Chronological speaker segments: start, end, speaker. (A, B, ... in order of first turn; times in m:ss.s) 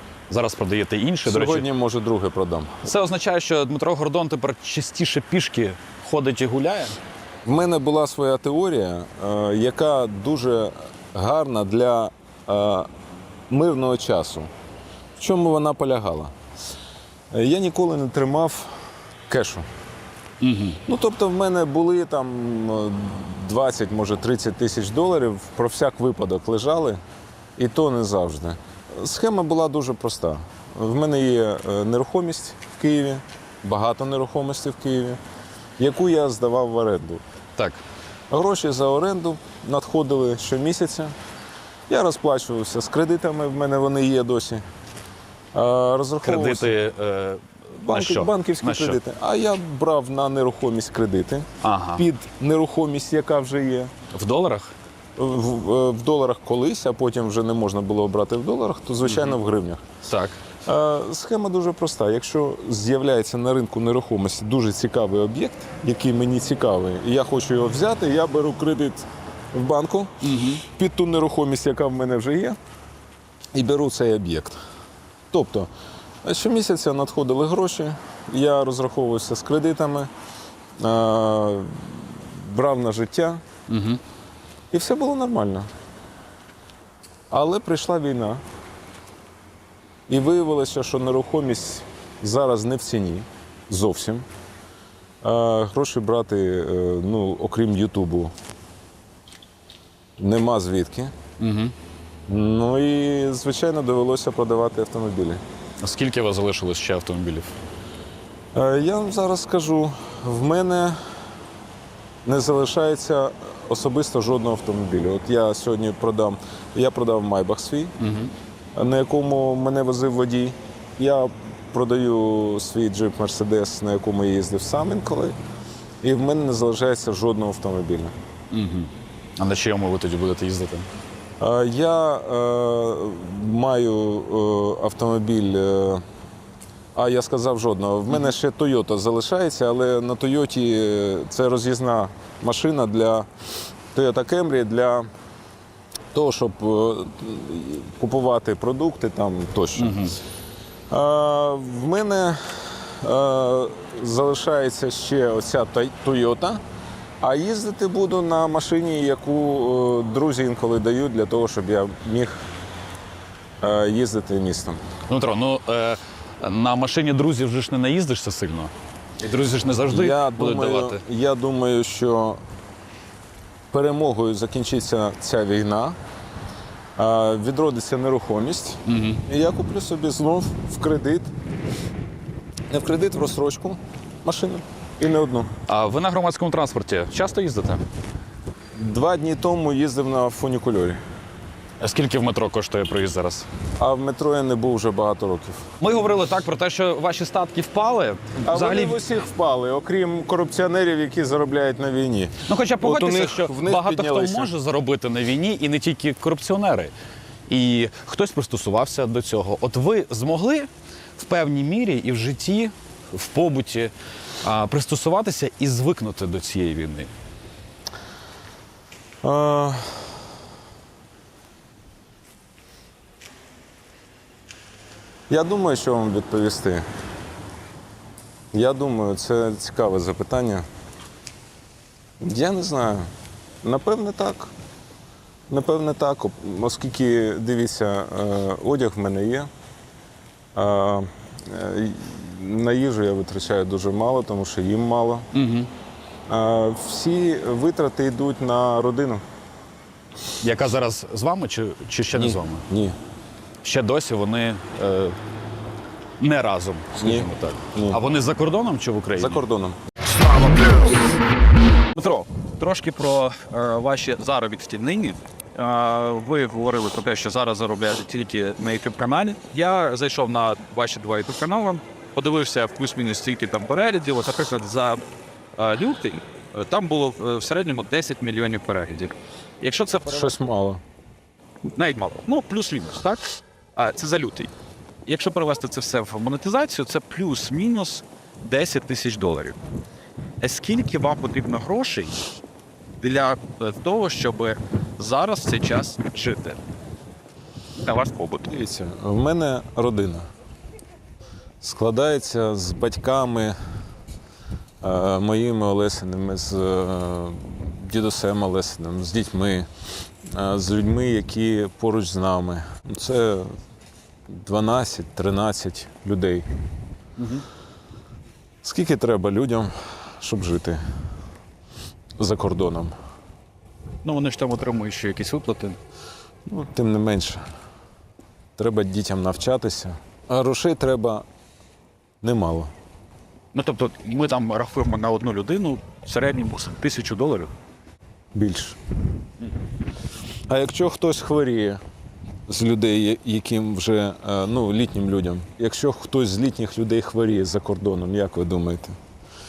0:00.3-0:01.6 A
0:01.2-0:02.9 B
0:02.8-0:07.0 A
0:07.4-0:12.9 B
0:13.5-0:14.5 B
0:15.2-0:16.3 B
0:17.3-0:18.7 B
0:19.3-0:19.6 B
0:20.4-0:20.8 A
0:20.8-0:27.0 B
0:27.6-0:35.2 B
0:35.8-0:37.2 B
0:37.5-0:37.8 A
0:38.3-0:41.1 B
0:41.9-0:44.6 B
0:45.5-0:46.7 B
0:46.2-0:49.0 A
0:47.8-0:53.9 B
0:51.6-0:52.0 A
0:54.1-0:54.7 A
0:55.2-0:59.8 B
0:59.0-0:59.4 A
1:00.0-1:00.4 A
1:00.6-1:12.6 B
1:10.2-1:10.6 A
1:13.5-1:14.6 B
1:15.3-1:15.7 B
1:16.2-1:20.1 B
1:20.8-1:23.4 B
1:23.7-1:24.0 A
1:24.7-1:25.7 B
1:27.3-1:28.4 B
1:30.1-1:34.2 B
1:35.2-1:38.3 B
1:40.2-1:41.1 B
1:41.4-1:41.7 A
1:42.3-1:45.4 B
1:45.8-1:47.5 A
1:48.5-1:51.0 B
1:52.2-1:57.9 B
1:58.0-1:58.3 A
1:58.7-2:05.4 B
2:06.0-2:08.1 B
2:08.5-2:10.9 A
2:11.4-2:16.0 B
2:16.9-2:23.3 B
2:23.9-2:25.1 B
2:26.1-2:30.1 B
2:29.8-2:30.2 A
2:30.9-2:36.6 B
2:37.2-2:42.4 B
2:43.6-2:44.8 B
2:45.1-2:51.0 A
2:49.9-2:52.4 B
2:53.7-2:56.0 B
2:57.0-3:01.3 B
2:58.8-2:59.2 A
3:02.7-3:05.5 B
3:05.7-3:07.8 A
3:08.7-3:11.0 B
3:11.8-3:13.5 A
3:13.8-3:15.6 B
3:15.8-3:19.0 A
3:18.4-3:24.5 B
3:22.5-3:26.9 A
3:27.5-3:37.1 A
3:39.2-3:40.1 B
3:45.3-3:46.8 B
3:48.5-3:50.6 B
3:52.2-3:53.1 B
3:53.6-3:54.5 B
3:55.5-3:59.5 B
4:00.5-4:05.3 B
4:05.3-4:05.7 A
4:06.3-4:09.2 B
4:10.4-4:12.6 A
4:12.1-4:13.0 B
4:13.6-4:15.2 A
4:16.2-4:19.4 A
4:17.0-4:18.0 B
4:19.1-4:19.8 B
4:20.2-4:20.9 A
4:20.6-4:20.8 C
4:22.0-4:32.2 A
4:26.4-4:27.0 C
4:29.0-4:30.1 C
4:30.8-4:35.0 C
4:34.3-4:34.9 A
4:35.6-4:40.3 C
4:40.0-4:40.8 B
4:41.8-4:43.2 C
4:43.8-4:44.5 C
4:45.1-4:49.5 C
4:50.4-4:52.1 C
4:50.5-4:52.2 A
4:53.0-4:56.5 C
4:53.0-4:56.6 A
4:57.9-4:58.5 C
4:58.4-5:00.3 B
5:01.6-5:03.6 B
5:04.8-5:09.7 B
5:10.3-5:13.5 B
5:14.3-5:16.4 B
5:18.6-5:20.8 B
5:22.2-5:22.9 B
5:24.0-5:25.8 C
5:24.2-5:25.7 A
5:26.4-5:27.4 B
5:28.6-5:31.2 B
5:32.2-5:32.7 B
5:33.5-5:37.4 C
5:33.8-5:37.5 A
5:38.3-5:38.8 B
5:40.5-5:41.8 B
5:42.5-5:49.0 B